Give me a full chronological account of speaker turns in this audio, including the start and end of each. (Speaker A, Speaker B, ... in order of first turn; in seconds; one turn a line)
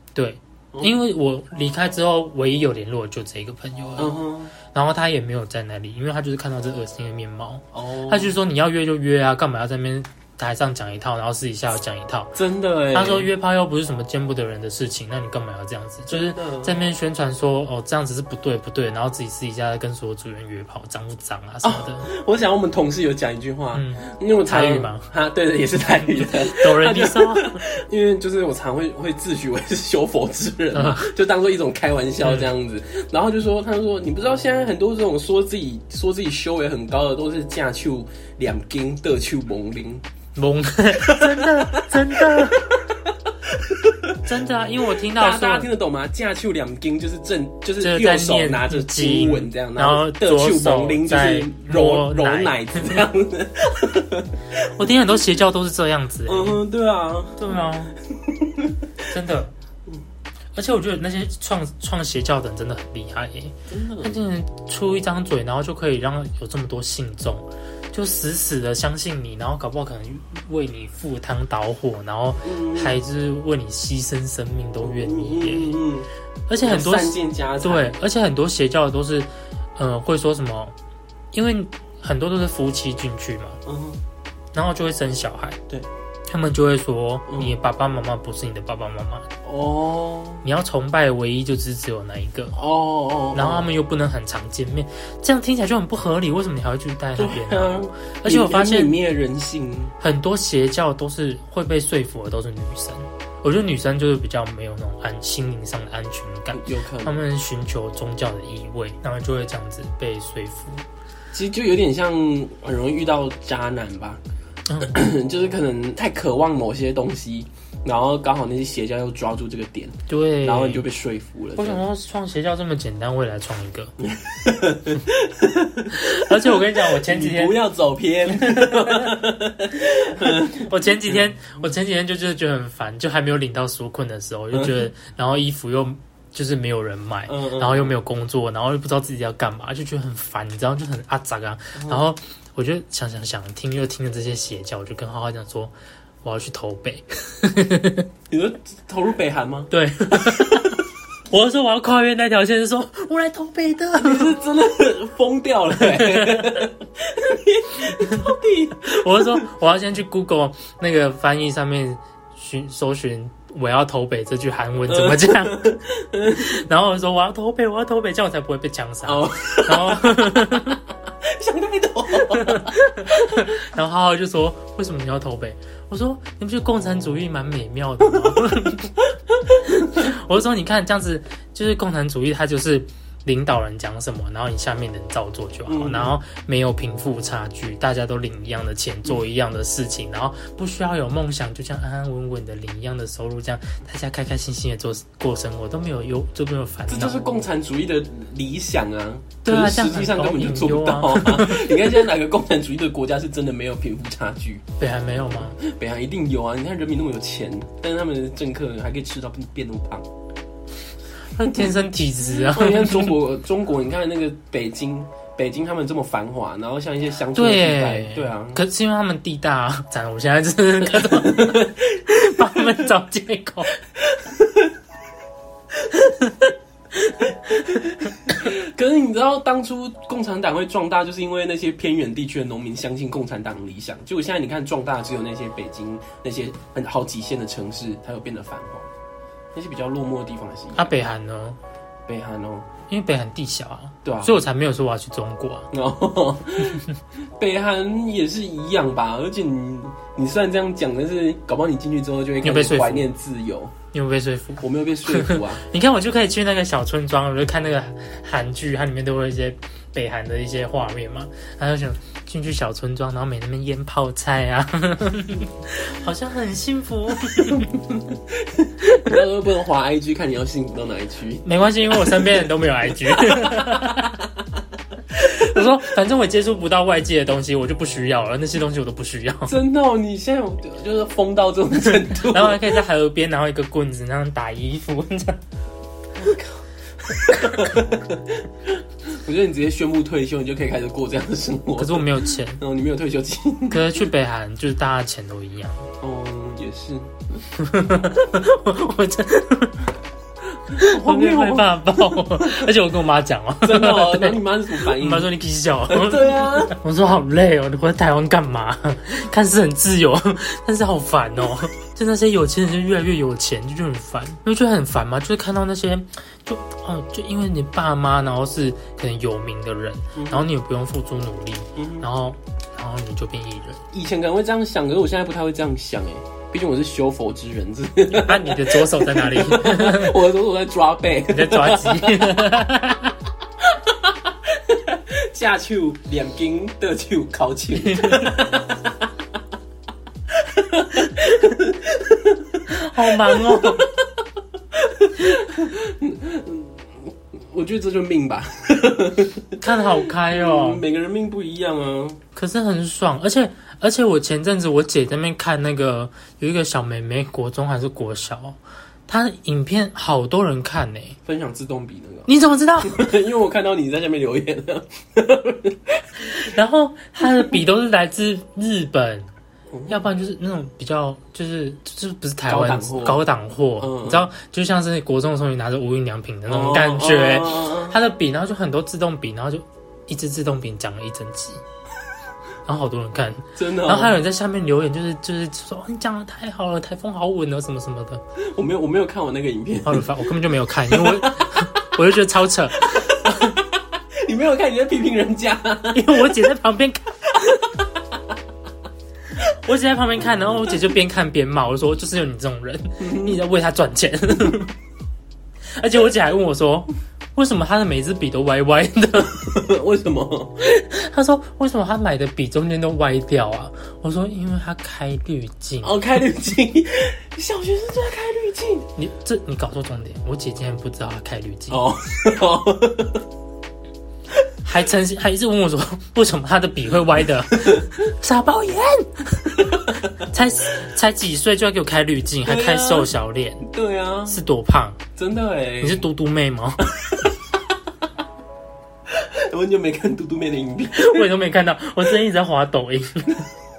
Speaker A: 0.1-12.4
Speaker B: 4.0-4.5
Speaker B: 7.7-8.4
Speaker B: 12.3-13.3
Speaker A: 12.9-22.1
Speaker B: 16.1-16.8
Speaker B: 21.6-40.0
Speaker A: 23.7-25.1
Speaker A: 26.1-27.6
Speaker A: 30.7-31.1
Speaker A: 32.2-32.5
Speaker A: 40.4-42.7
Speaker B: 41.0-44.2
Speaker A: 44.2-45.7
Speaker B: 45.1-54.7
Speaker A: 47.8-53.0
Speaker A: 54.7-56.6
Speaker B: 56.2-58.9
Speaker A: 57.4-58.0
Speaker A: 59.1-59.5
Speaker A: 60.5-75.8
Speaker B: 63.7-64.2
Speaker B: 72.4-73.0
Speaker B: 74.8-76.1
Speaker A: 76.5-80.7
Speaker B: 76.6-77.9
Speaker A: 81.3-83.6
Speaker B: 83.7-84.0
Speaker A: 84.5-85.6
Speaker A: 86.3-89.3
Speaker B: 87.3-87.5
Speaker B: 89.4-90.4
Speaker A: 90.4-92.5
Speaker B: 92.5-93.7
Speaker A: 93.3-98.9
Speaker B: 97.2-99.9
Speaker A: 100.0-110.8
Speaker B: 106.5-107.2
Speaker B: 111.3-114.2
Speaker A: 114.7-115.0
Speaker B: 114.8-121.8
Speaker A: 120.1-120.8
Speaker A: 121.6-123.9
Speaker B: 124.0-131.3
Speaker A: 125.9-127.6
Speaker A: 128.3-129.1
Speaker A: 130.2-148.1
Speaker B: 134.5-134.9
Speaker B: 137.3-137.9
Speaker B: 141.8-142.0
Speaker B: 148.3-150.8
Speaker A: 149.7-154.3
Speaker B: 154.0-159.5
Speaker A: 155.8-156.7
Speaker A: 157.9-170.8
Speaker B: 164.9-166.6
Speaker B: 169.0-173.5
Speaker A: 172.2-178.9
Speaker B: 178.2-180.1
Speaker A: 179.7-197.2
Speaker B: 185.7-186.1
Speaker B: 196.9-204.6
Speaker A: 199.4-201.9
Speaker A: 204.8-205.6
Speaker B: 205.3-210.1
Speaker A: 211.3-213.1
Speaker B: 211.5-218.6
Speaker A: 217.3-223.7
Speaker B: 220.8-222.9
Speaker B: 223.9-224.8
Speaker B: 225.7-238.9
Speaker B: 239.5-240.9
Speaker A: 240.7-241.6
Speaker B: 242.1-242.7
Speaker A: 242.9-245.7
Speaker B: 244.0-244.4
Speaker B: 245.7-246.8
Speaker B: 247.4-253.7
Speaker A: 252.4-253.1
Speaker A: 253.9-267.8
Speaker B: 254.6-255.6
Speaker B: 267.5-274.4
Speaker A: 271.4-274.2
Speaker B: 275.1-275.7
Speaker A: 275.1-279.6
Speaker B: 279.5-282.8
Speaker A: 282.0-285.4
Speaker B: 286.1-293.8
Speaker A: 291.8-292.6
Speaker A: 293.7-295.9
Speaker B: 296.0-297.4
Speaker A: 297.6-299.9
Speaker B: 300.7-302.7
Speaker A: 300.7-323.8
Speaker B: 303.6-305.3
Speaker B: 305.9-306.8
Speaker B: 320.1-320.5
Speaker B: 321.8-322.1
Speaker B: 323.9-332.5
Speaker A: 328.1-330.2
Speaker A: 331.3-333.1
Speaker B: 333.6-339.2
Speaker A: 337.7-338.4
Speaker B: 340.3-352.2
Speaker A: 342.7-343.9
Speaker A: 349.6-350.8
Speaker A: 352.4-361.2
Speaker B: 361.2-366.3
Speaker A: 362.3-363.1
Speaker A: 366.2-369.3
Speaker B: 369.7-370.0
Speaker A: 369.9-381.6
Speaker B: 372.5-373.2
Speaker B: 373.8-374.3
Speaker B: 376.5-378.0
Speaker A: 382.6-388.2
Speaker B: 383.5-384.2
Speaker B: 388.4-390.1
Speaker A: 389.8-393.6
Speaker B: 390.9-391.6
Speaker B: 392.8-396.4
Speaker A: 395.9-397.6
Speaker B: 397.3-398.3
Speaker A: 399.4-404.7
Speaker B: 403.0-403.4
Speaker A: 405.7-409.6
Speaker B: 409.4-410.6
Speaker A: 410.6-416.0
Speaker B: 415.8-418.9
Speaker A: 419.0-421.9
Speaker B: 421.7-423.2
Speaker A: 424.6-433.7
Speaker B: 427.5-427.9
Speaker B: 429.7-430.3
Speaker B: 432.4-434.4
Speaker A: 434.2-435.0
Speaker B: 435.1-436.0
Speaker A: 435.8-436.9
Speaker B: 437.0-437.8
Speaker B: 439.1-441.3
Speaker A: 440.9-443.4